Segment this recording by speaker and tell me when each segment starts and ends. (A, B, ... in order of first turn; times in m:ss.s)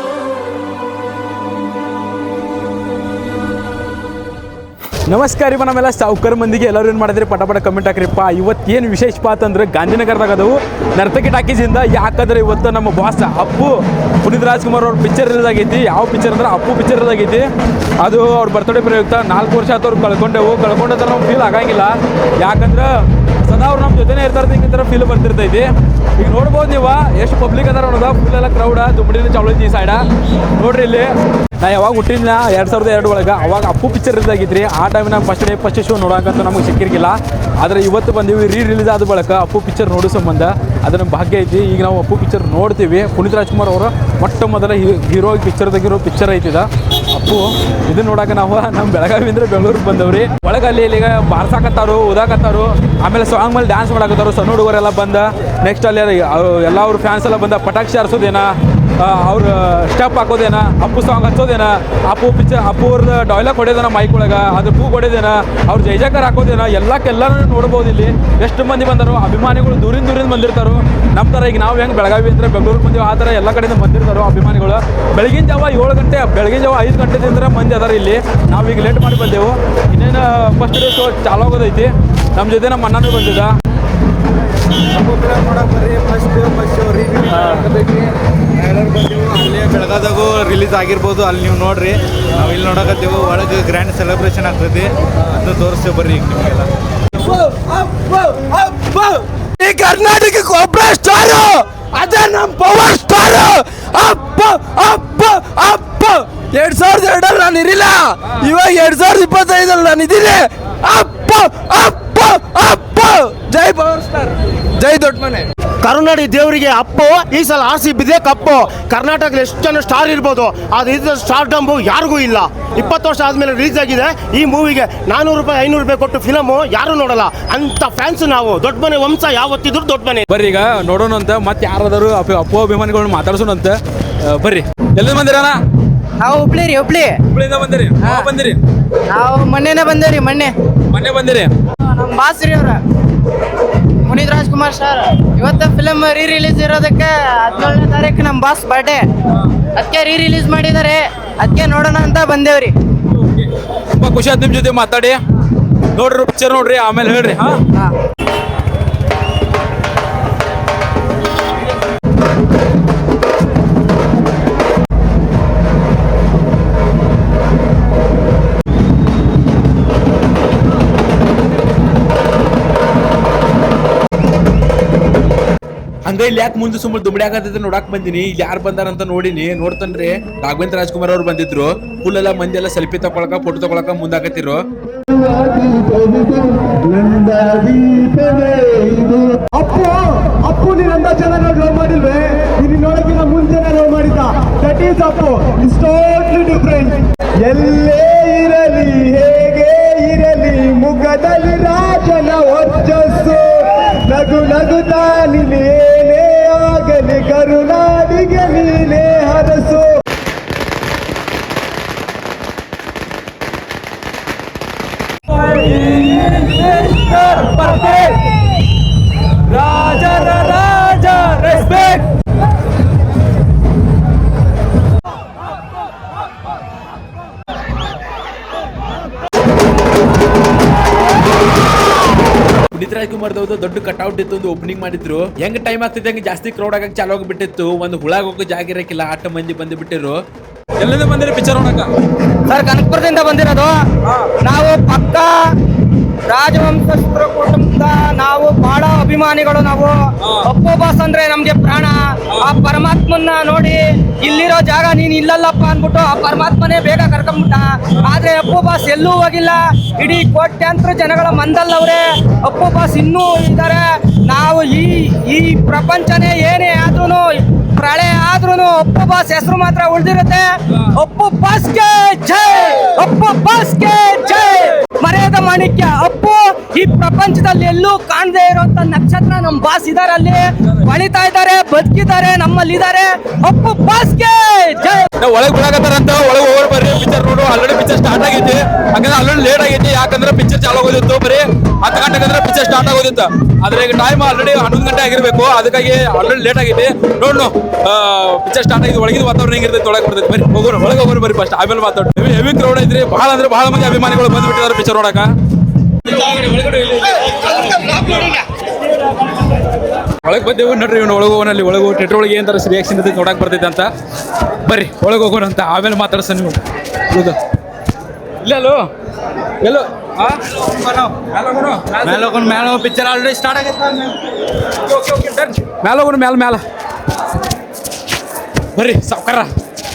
0:05.1-0:17.5 A
0:18.0-0:30.0 A
0:30.6-1:23.5 A
1:24.9-1:36.7 B
1:37.4-1:39.0 C
1:39.6-1:55.4 C
1:55.8-2:10.2 D
2:10.3-2:15.6 A
2:16.2-2:17.2 E
2:17.3-2:18.6 A
2:18.0-2:18.3 E
2:19.1-2:20.5 E
2:20.9-2:21.5 A
2:21.9-2:22.8 E
2:24.0-2:29.1 E
2:27.5-2:27.8 A
2:29.8-2:32.7 E
2:33.2-2:35.2 A
2:35.9-2:37.6 A
2:56.1-3:04.6 A
3:05.1-3:29.9 F
3:35.3-3:38.3 A
3:39.5-3:42.1 A
3:52.7-4:00.1 A
4:00.8-4:01.9 A
4:02.5-4:05.3 G
4:04.0-4:04.3 A
4:06.3-4:45.1 G
4:10.2-4:10.5 A
4:45.2-5:05.3 A
5:06.0-5:08.4 A
5:10.2-5:13.9 A
5:14.6-5:17.4 A
5:18.4-5:18.8 A
5:19.6-5:20.4 A
5:20.6-5:21.1 B
5:21.3-5:22.3 A
5:22.0-5:24.1 B
5:24.8-5:26.6 A
5:28.7-5:29.5 A